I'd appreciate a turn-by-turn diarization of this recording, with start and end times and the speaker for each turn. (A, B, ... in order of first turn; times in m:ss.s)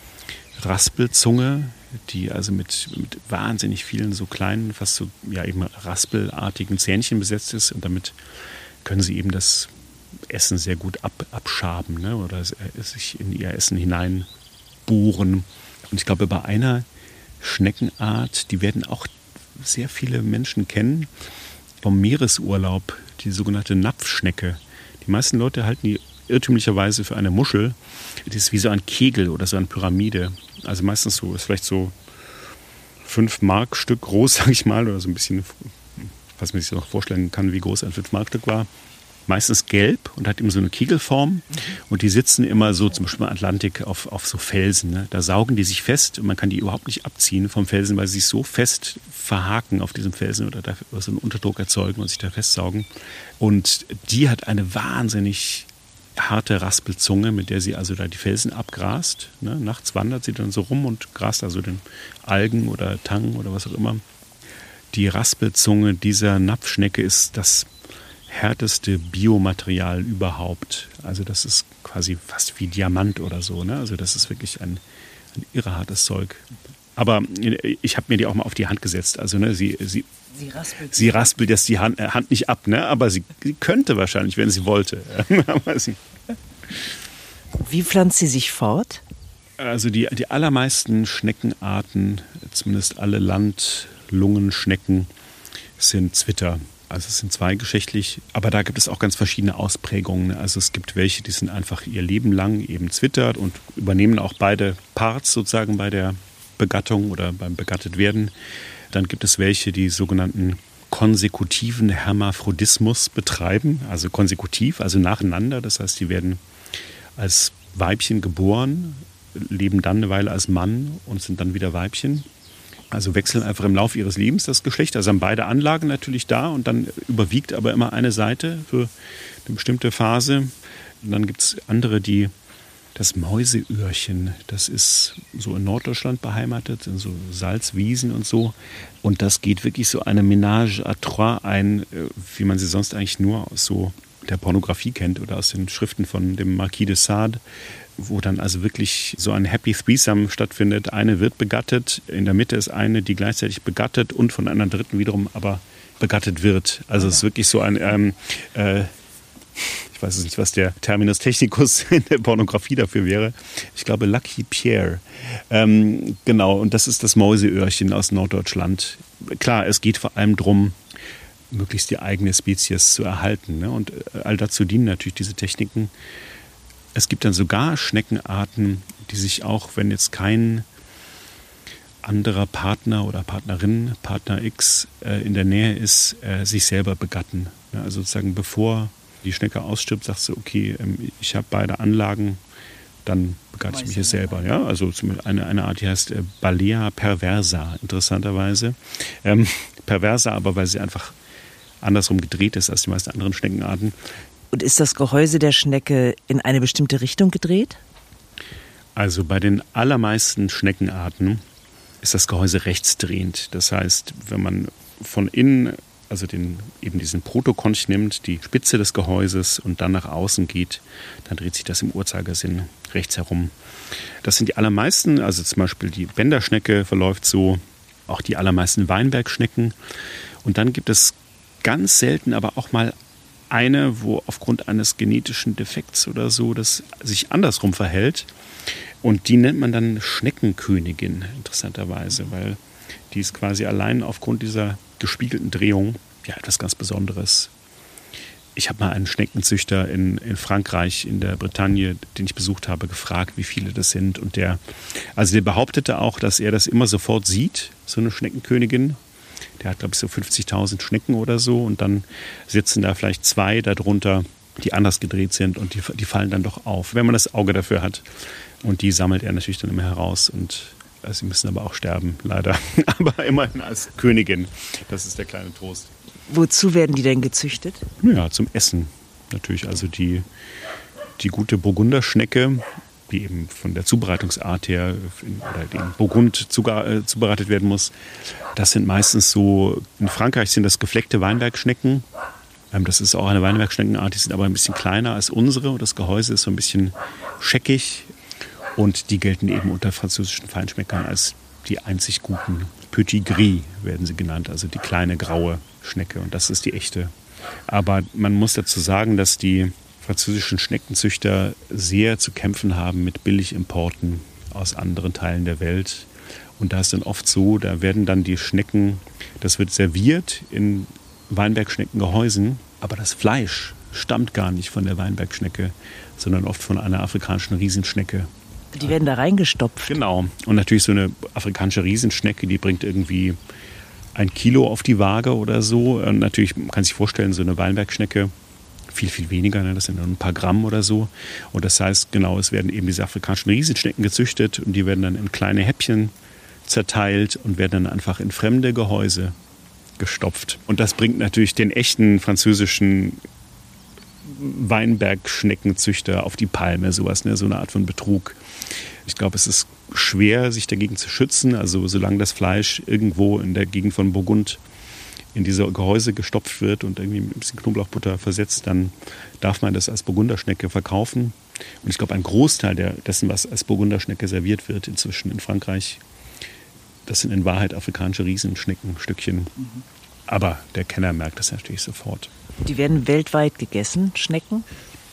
0:00.6-0:08.2 A
0:08.8-0:09.7 A
0:10.3-0:14.3 A
0:14.9-0:16.9 A
0:17.4-0:21.1 A
0:21.8-0:32.0 A
0:33.0-0:38.7 A
0:39.3-0:52.9 A
0:53.4-1:04.0 A
1:04.9-1:07.7 A
1:08.3-1:14.8 A
1:15.3-1:16.4 A
1:17.0-1:20.1 A
1:20.4-1:21.3 B
1:20.7-1:26.4 A
1:27.6-1:29.0 B
1:29.6-1:35.1 A
1:35.8-1:48.3 A
1:48.9-1:56.4 A
1:57.2-2:02.3 A
2:02.9-2:08.9 A
2:09.4-2:12.3 A
2:13.0-2:27.4 A
2:28.0-2:38.9 A
2:39.6-2:50.8 A
2:51.5-2:55.9 A
2:56.9-3:00.7 A
3:02.0-3:12.4 A
3:13.0-3:21.2 A
3:13.7-3:14.4 B
3:21.8-3:23.9 A
3:24.5-3:27.8 B
3:29.0-3:31.4 A
3:32.0-3:43.5 A
3:44.2-3:49.8 A
3:50.4-3:53.0 A
3:53.5-3:58.3 A
3:59.0-4:02.6 A
4:03.1-4:07.5 A
4:08.6-4:14.6 A
4:15.2-4:19.0 A
4:19.6-4:28.1 A
4:28.6-4:35.9 A
4:36.3-4:37.9 B
4:38.0-4:40.3 A
4:41.2-4:47.9 A
4:48.5-4:52.0 A
4:52.7-4:58.1 A
4:58.8-5:07.1 A
5:07.7-5:28.3 A
5:28.7-5:30.0 B
5:29.9-5:33.4 A
5:34.2-5:38.3 A
5:38.9-5:46.1 A
5:46.7-5:49.4 A
5:50.0-5:53.2 A
5:54.2-5:58.4 A
5:59.1-6:04.6 A
6:05.3-6:16.0 A
6:17.1-6:19.5 A
6:20.3-6:22.3 A
6:22.6-6:24.7 B